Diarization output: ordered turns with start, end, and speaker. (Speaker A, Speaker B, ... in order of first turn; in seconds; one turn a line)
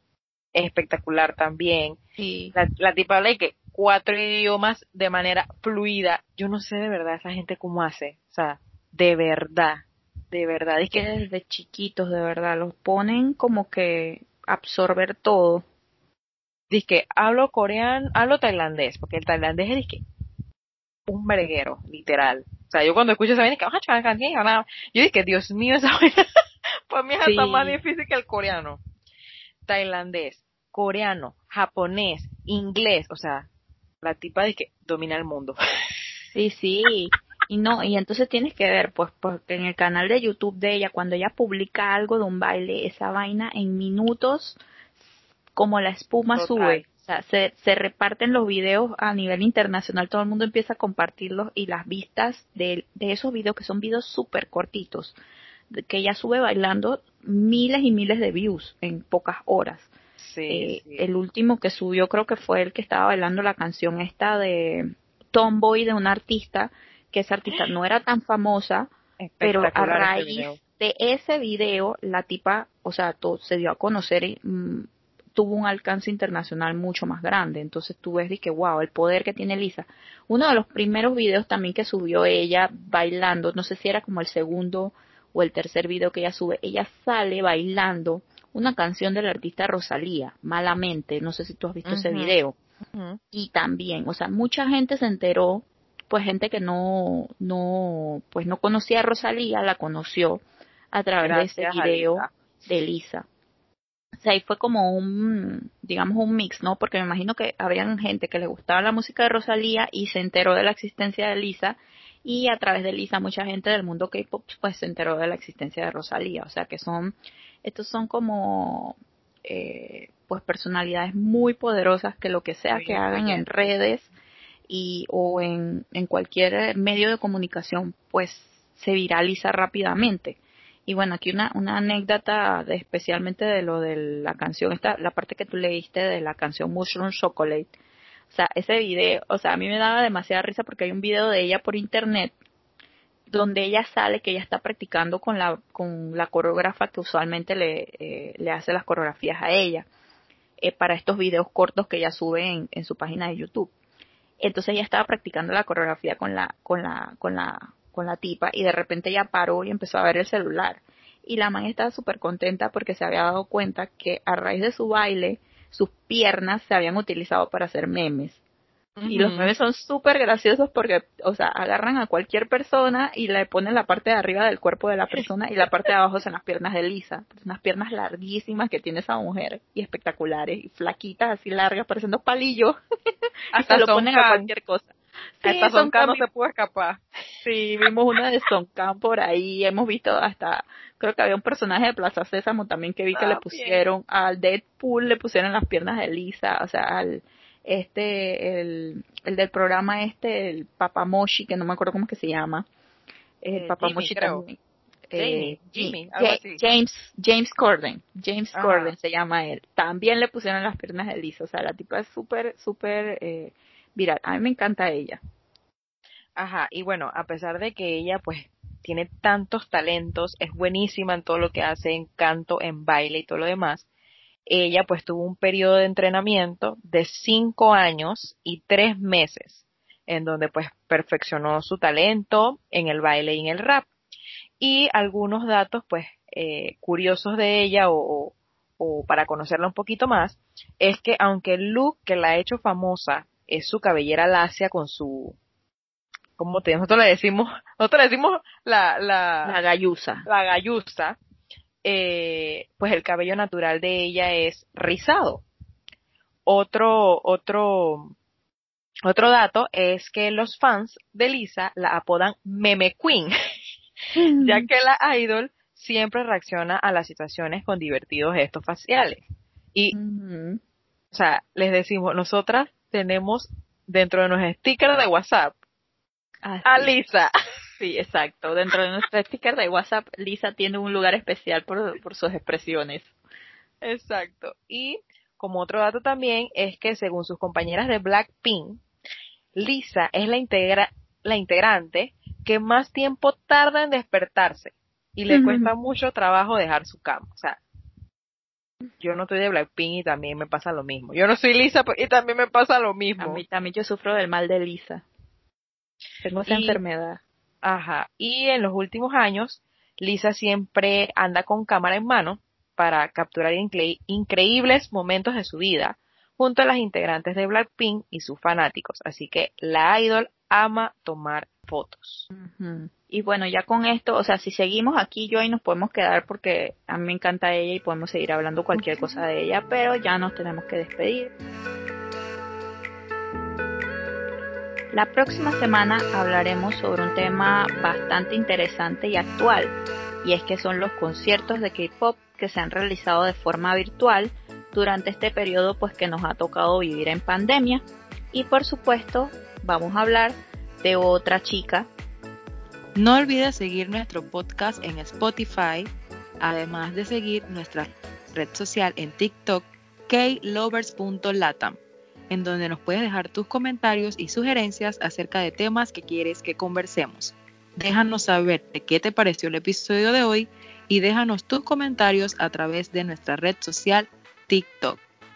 Speaker A: 0.5-2.0
Speaker B: 2.2-2.5
Speaker A: 2.5-11.1
Speaker B: 10.9-15.6
Speaker A: 16.7-20.0
Speaker A: 21.1-26.2
Speaker A: 26.9-28.8
Speaker B: 27.2-27.8
Speaker A: 29.7-33.5
Speaker A: 34.0-35.6
Speaker B: 36.3-44.6
Speaker B: 45.5-55.1
Speaker A: 46.3-46.9
Speaker B: 55.7-59.9
Speaker A: 60.2-61.0
Speaker B: 60.5-92.5
Speaker A: 69.2-70.6
Speaker A: 91.8-92.4
Speaker A: 92.9-93.2
Speaker B: 93.3-103.2
Speaker A: 101.2-102.3
Speaker B: 104.2-124.1
Speaker A: 122.7-123.7
Speaker B: 124.7-137.7
Speaker B: 138.3-142.3
Speaker B: 143.3-149.9
Speaker B: 150.6-153.7
Speaker B: 154.4-168.4
Speaker A: 168.9-169.5
Speaker B: 169.1-182.8
Speaker A: 183.5-184.5
Speaker B: 183.6-186.2
Speaker A: 185.4-187.0
Speaker B: 187.4-202.7
Speaker A: 193.1-193.8
Speaker B: 203.4-204.6
Speaker A: 203.5-204.4
Speaker B: 205.1-215.2
Speaker A: 205.1-206.7
Speaker A: 208.5-208.9
Speaker A: 216.3-223.8
Speaker A: 224.5-233.9
Speaker A: 234.6-245.4
Speaker A: 246.4-249.6
Speaker B: 249.4-250.3
Speaker A: 250.2-251.2
Speaker A: 251.8-255.4
Speaker A: 256.4-258.1
Speaker A: 259.0-263.3
Speaker B: 264.1-264.7
Speaker A: 264.4-269.2
Speaker B: 269.9-270.6
Speaker A: 271.1-275.5
Speaker B: 276.4-276.9
Speaker A: 276.6-277.3
Speaker B: 277.8-283.1
Speaker A: 283.8-288.8
Speaker A: 289.5-297.6
Speaker B: 295.3-295.7
Speaker A: 299.0-303.4
Speaker B: 303.2-305.0
Speaker B: 306.2-307.2
Speaker A: 306.4-306.8
Speaker A: 307.6-322.3
Speaker B: 322.3-331.3
Speaker A: 328.8-329.2
Speaker B: 334.9-351.9
Speaker C: 352.9-361.8
Speaker C: 362.3-375.0